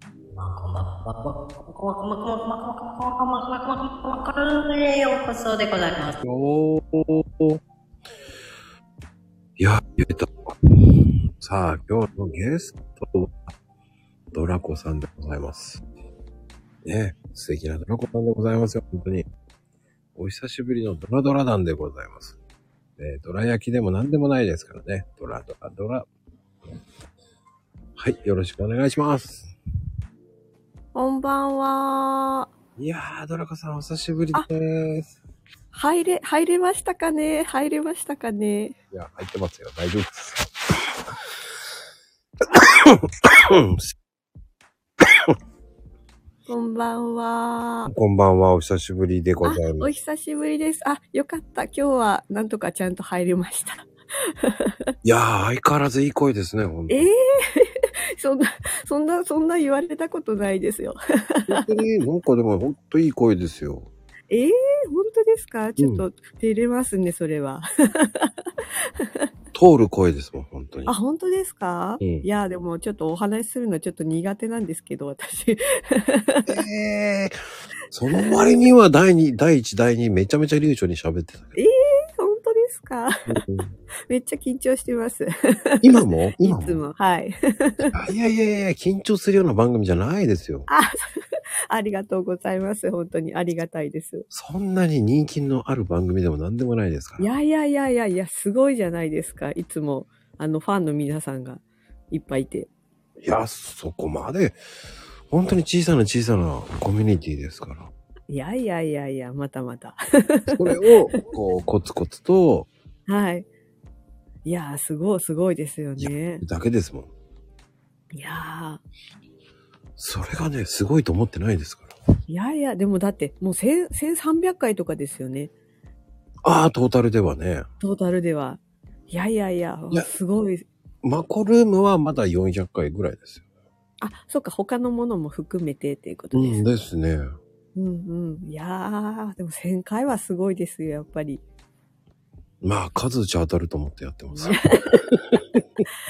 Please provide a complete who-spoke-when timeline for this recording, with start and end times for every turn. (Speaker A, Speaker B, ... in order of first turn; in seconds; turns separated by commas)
Speaker A: 0.4-6.2, Speaker B: 6.2-7.6, Speaker B: 9.6-13.4, Speaker B: 14.3-15.8, Speaker B: 16.8-19.3, Speaker B: 20.2-22.4, Speaker B: 23.0-26.1, Speaker B: 28.0-29.5, Speaker C: 30.9-32.5, Speaker B: 32.8-35.2, Speaker C: 35.7-38.8, Speaker B: 38.9-40.8, Speaker B: 42.5-43.9, Speaker C: 46.5-47.9, Speaker B: 47.9-49.9, Speaker C: 49.4-54.9, Speaker B: 55.0-57.1, Speaker C: 56.9-61.7, Speaker B: 61.5-63.9, Speaker C: 64.3-68.3, Speaker B: 65.8-66.0, Speaker C: 69.0-69.3, Speaker B: 69.5-70.9, Speaker C: 70.9-76.6, Speaker B: 72.0-72.3, Speaker B: 76.5-77.3, Speaker B: 77.9-81.5, Speaker C: 78.1-78.4, Speaker C: 81.6-83.4, Speaker B: 83.3-83.7, Speaker C: 84.1-85.8, Speaker B: 85.8-86.8, Speaker C: 86.4-87.9, Speaker B: 87.9-90.7, Speaker C: 90.7-94.3, Speaker B: 94.3-97.3, Speaker C: 97.2-102.7, Speaker B: 103.2-104.6, Speaker B: 105.3-107.9, Speaker C: 108.3-111.2, Speaker B: 110.5-112.7, Speaker C: 113.1-113.5, Speaker C: 114.5-116.4, Speaker B: 116.0-117.1, Speaker C: 118.1-118.8, Speaker B: 120.0-121.9, Speaker C: 122.3-125.5, Speaker B: 126.4-127.7, Speaker C: 127.8-130.7, Speaker B: 131.0-133.4, Speaker C: 134.0-136.7, Speaker B: 136.3-137.3, Speaker C: 137.8-141.4, Speaker B: 142.6-145.6, Speaker C: 144.3-145.0